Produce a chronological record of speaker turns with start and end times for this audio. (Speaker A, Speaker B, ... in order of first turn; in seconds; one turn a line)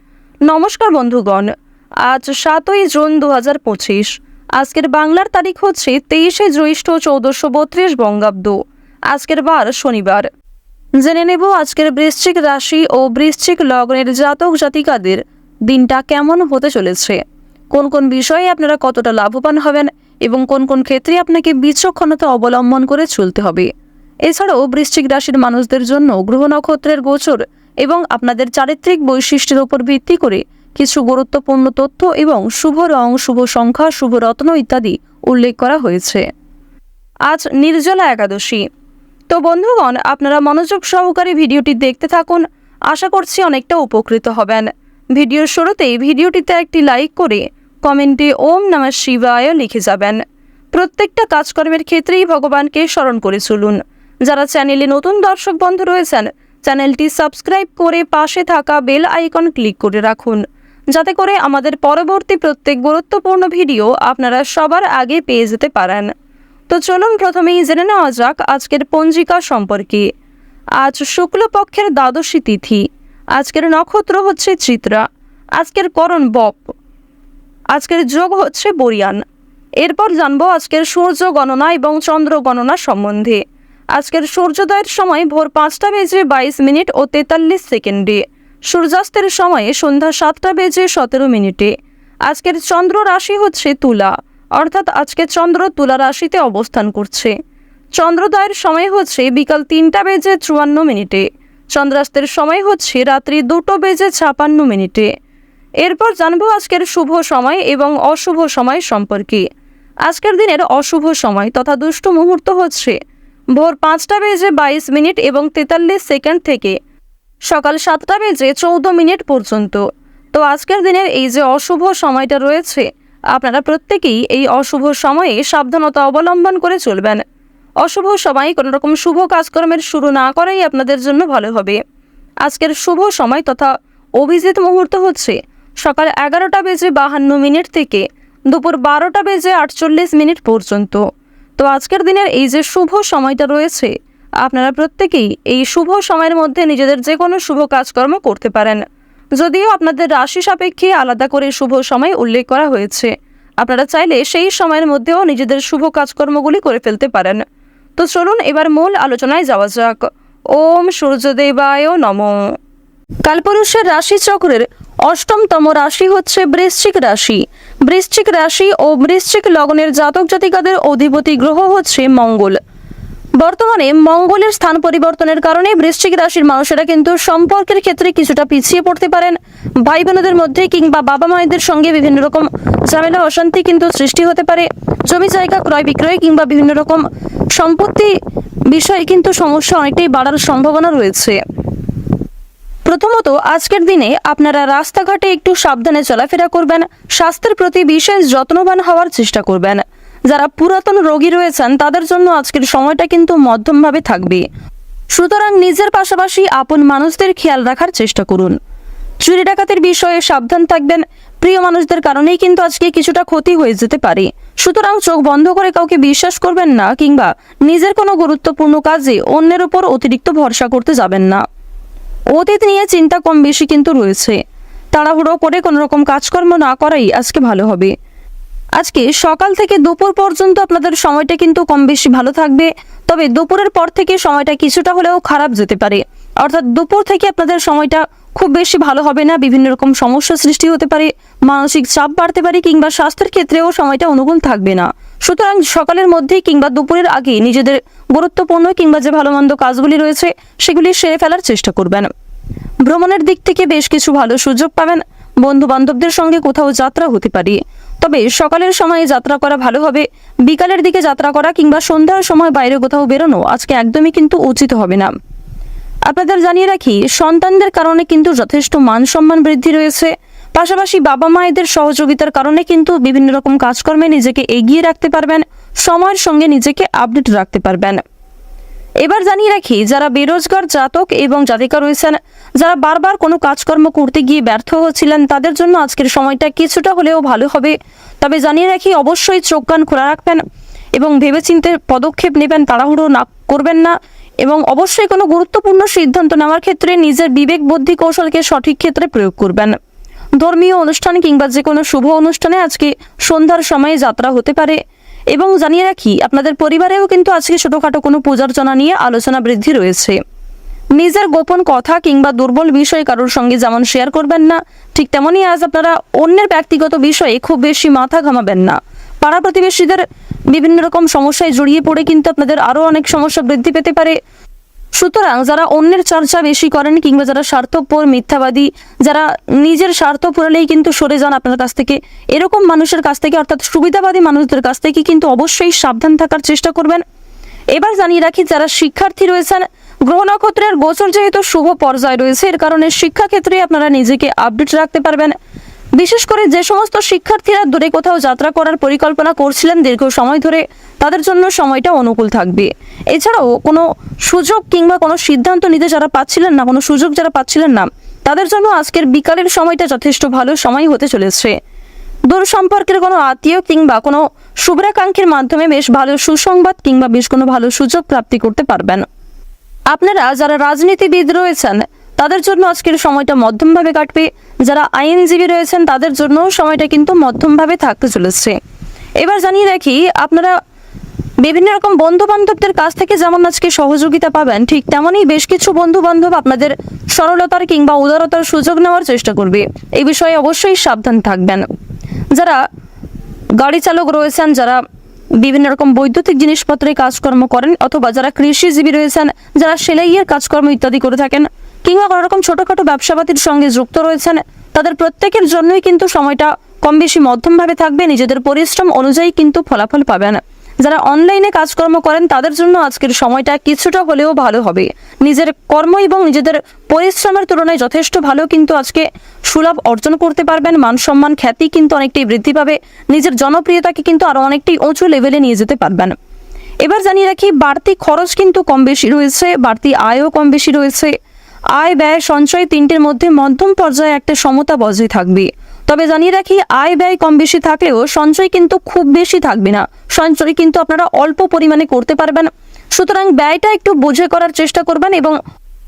Speaker A: 0.4-1.5
Speaker A: 2.0-8.6
Speaker A: 9.1-10.3
Speaker A: 11.0-17.2
Speaker A: 17.7-23.7
Speaker A: 24.2-36.2
Speaker A: 37.3-38.6
Speaker A: 39.3-50.2
Speaker A: 50.7-66.1
Speaker A: 66.7-70.1
Speaker A: 70.8-75.0
Speaker A: 75.6-76.7
Speaker A: 77.7-79.2
Speaker A: 79.8-83.4
Speaker A: 83.9-91.7
Speaker A: 92.2-97.3
Speaker A: 97.9-105.1
Speaker A: 105.8-109.4
Speaker A: 110.0-113.0
Speaker A: 113.5-116.8
Speaker A: 117.5-127.2
Speaker A: 127.8-131.8
Speaker A: 132.4-141.0
Speaker A: 141.6-148.8
Speaker A: 149.3-157.4
Speaker A: 158.0-162.4
Speaker A: 163.2-172.6
Speaker A: 173.4-188.1
Speaker A: 188.7-191.4
Speaker A: 192.8-204.4
Speaker A: 205.1-208.5
Speaker A: 209.2-221.4
Speaker A: 222.3-224.4
Speaker A: 224.9-227.9
Speaker A: 228.8-252.1
Speaker A: 252.8-265.1
Speaker A: 266.1-278.0
Speaker A: 279.0-290.4
Speaker A: 290.9-299.7
Speaker A: 300.4-304.8
Speaker A: 305.3-310.2
Speaker A: 310.9-324.1
Speaker A: 324.9-337.0
Speaker A: 337.7-345.3
Speaker A: 345.9-361.5
Speaker A: 362.3-369.0
Speaker A: 369.9-378.5
Speaker A: 379.2-380.5
Speaker A: 381.4-391.6
Speaker A: 392.3-392.6
Speaker A: 393.6-394.8
Speaker A: 395.4-426.1
Speaker A: 426.8-431.1
Speaker A: 431.7-445.4